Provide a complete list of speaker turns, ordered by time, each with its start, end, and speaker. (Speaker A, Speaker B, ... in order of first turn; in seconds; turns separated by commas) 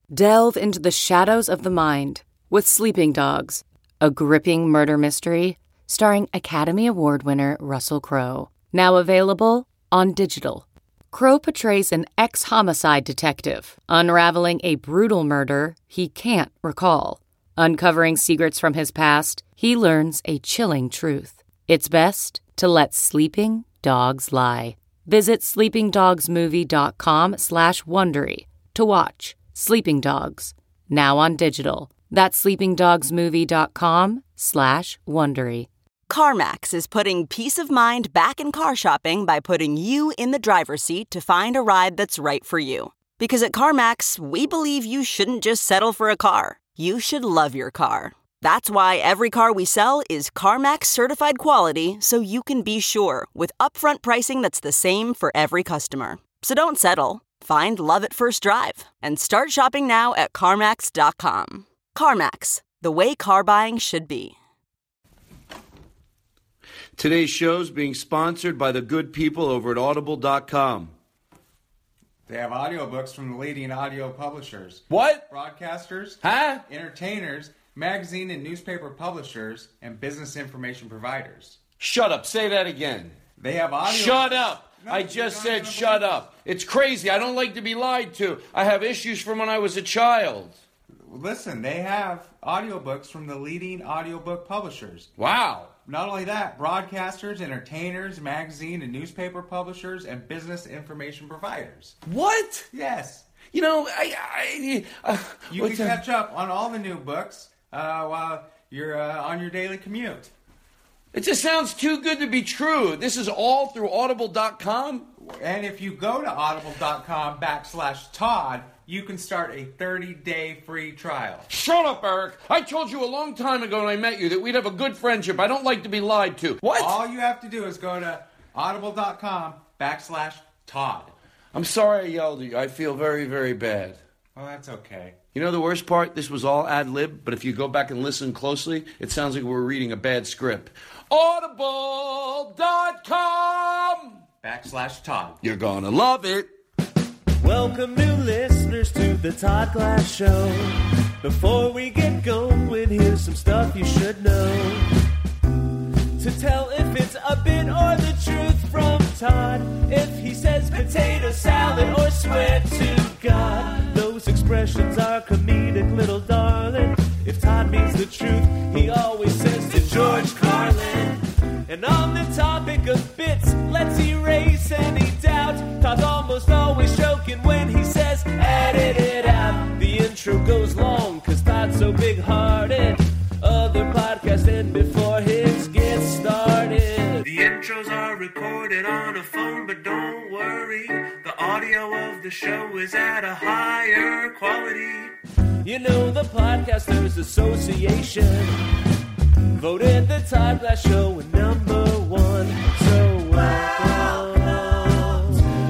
Speaker A: 0.1-35.7, Speaker B: 36.1-64.3, Speaker C: 67.0-70.9, Speaker D: 72.2-81.6, Speaker C: 74.9-75.3, Speaker C: 76.2-76.6, Speaker C: 81.8-83.2, Speaker D: 83.4-86.2, Speaker C: 83.8-90.6, Speaker D: 91.0-95.1, Speaker C: 95.2-95.7, Speaker D: 95.8-102.0, Speaker C: 102.1-102.7, Speaker D: 102.7-103.3, Speaker C: 103.5-106.0, Speaker D: 105.5-110.3, Speaker C: 111.1-115.1, Speaker D: 115.2-121.5, Speaker C: 121.5-127.0, Speaker D: 126.7-131.1, Speaker C: 131.5-134.0, Speaker D: 134.3-135.2, Speaker C: 135.3-144.2, Speaker D: 144.4-145.4, Speaker C: 145.4-146.5, Speaker E: 147.4-154.9, Speaker E: 156.2-198.6, Speaker E: 199.5-205.4